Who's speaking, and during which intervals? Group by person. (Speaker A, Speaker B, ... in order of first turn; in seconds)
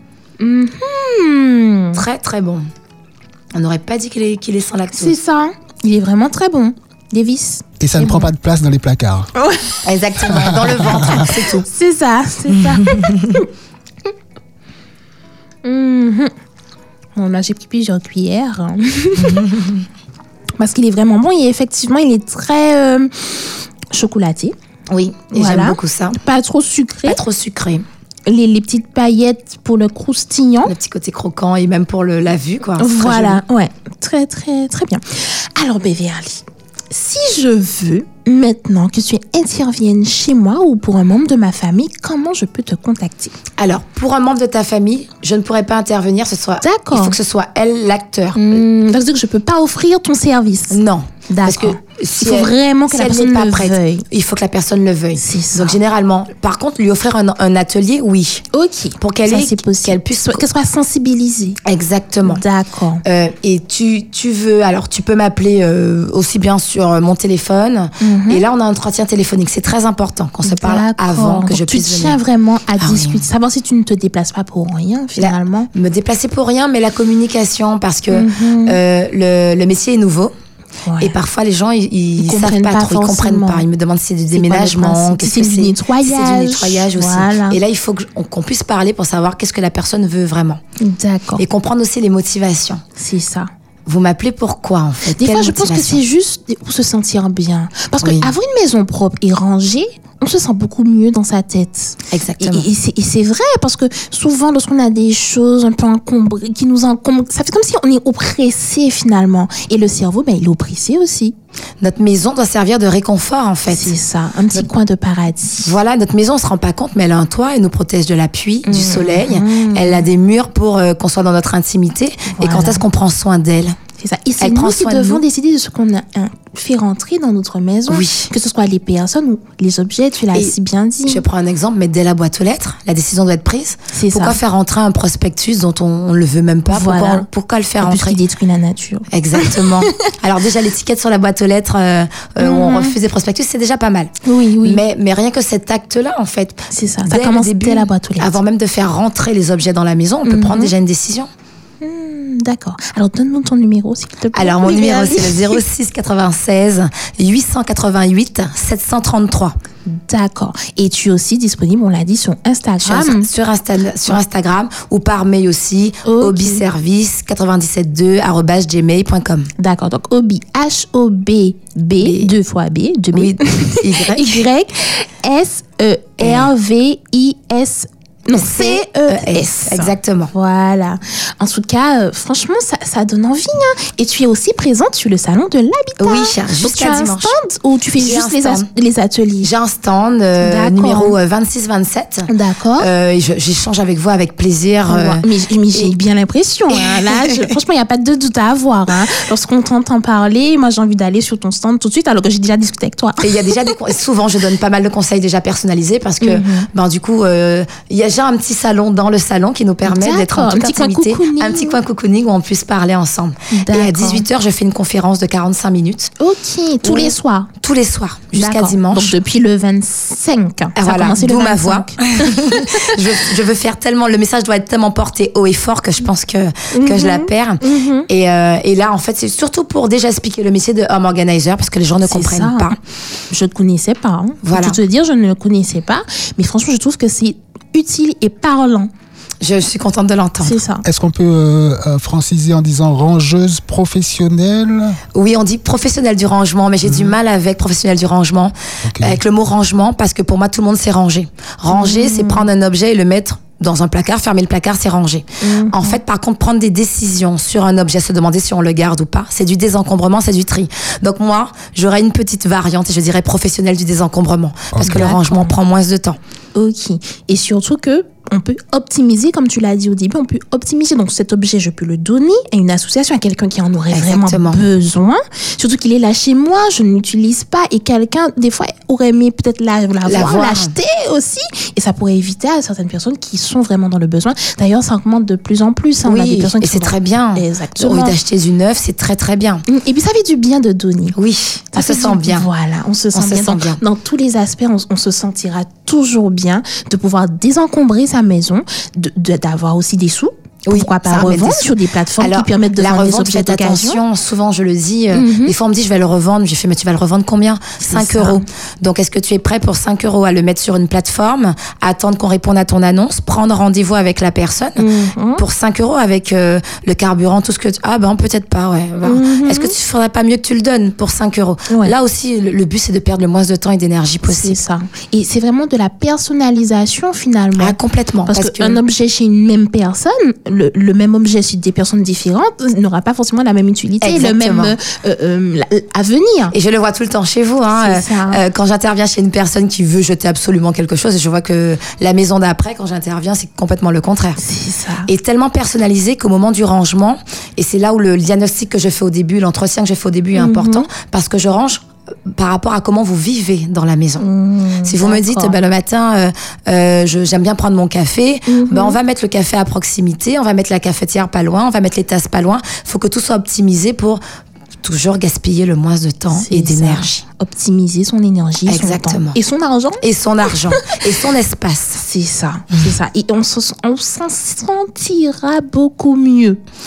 Speaker A: 0.4-2.0, 4.9-8.3, 9.3-9.8, 11.0-13.5, 15.6-16.3, 17.1-19.6, 20.6-24.5, 25.3-27.2, 28.3-30.7, 32.8-43.3, 46.6-47.1, 48.3-54.0, 55.1-55.8, 58.5-61.6, 62.2-63.0, 68.0-68.4, 70.4-75.7, 78.1-78.8, 80.8-81.1, 82.2-83.6, 84.3-87.6, 90.8-91.4, 93.0-93.5, 95.2-111.3, 113.7-115.7, 118.7-120.0, 122.3-122.8, 124.0-131.2, 133.9-134.4, 136.7-137.3, 137.8-139.9, 142.4-142.9, 144.2-144.8, 146.7-148.4, 150.2-150.7, 151.8-155.6, 159.8-163.3, 166.0-166.6, 169.6-189.5, 190.4-191.2, 192.3-192.9, 194.9-203.7, 206.2-206.7, 209.8-211.8, 213.5-214.2, 216.2-217.5, 218.3-223.0, 226.7-228.1, 232.0-232.8, 233.3-238.9, 240.4-240.8, 251.7-252.5, 255.4-256.0, 264.8-265.5, 266.5-288.2, 289.7-291.1, 291.7-304.0, 305.1-305.5, 307.8-308.4, 314.8-315.4, 319.0-319.8, 321.7-321.9, 324.3-327.8, 328.3-336.5, 337.7-338.4, 344.4-345.1, 350.3-350.9, 354.2-355.6, 358.5-359.0, 366.3-371.0, 371.9-376.6
Speaker B: 1.9-2.7, 3.5-5.2, 9.8-11.7, 12.6-13.4, 19.3-19.6, 24.9-26.2, 27.0-27.8, 30.6-33.4, 43.6-48.6, 50.7-58.4, 59.0-60.4, 61.6-62.4, 63.0-72.2, 72.8-73.2, 75.2-80.3, 81.0-90.6, 91.4-92.8, 93.8-96.0, 98.0-98.3, 102.1-102.7, 111.8-114.0, 115.6-123.8, 124.4-125.2, 127.9-128.3, 131.1-138.2, 139.1-151.3, 154.3-159.5, 162.8-169.5, 172.0-172.3, 173.1-174.4, 176.2-176.5, 178.3-180.3, 186.0-187.3, 188.0-188.7, 189.4-195.9, 197.1-197.4, 203.2-216.1, 216.8-219.1, 220.8-232.8, 234.4-234.8, 239.4-240.6, 245.1-266.2, 273.9-274.6, 280.1-280.7, 286.0-289.6, 291.1-292.5, 293.1-293.8, 300.6-314.9, 315.4-324.6, 327.6-328.8, 334.0-334.7, 336.5-344.4, 345.1-354.2, 354.8-364.2, 364.8-367.2, 368.7-369.4, 370.0-372.0
Speaker C: 7.8-9.3, 10.3-11.0, 240.8-245.0, 246.8-247.1, 248.8-249.2, 264.7-265.0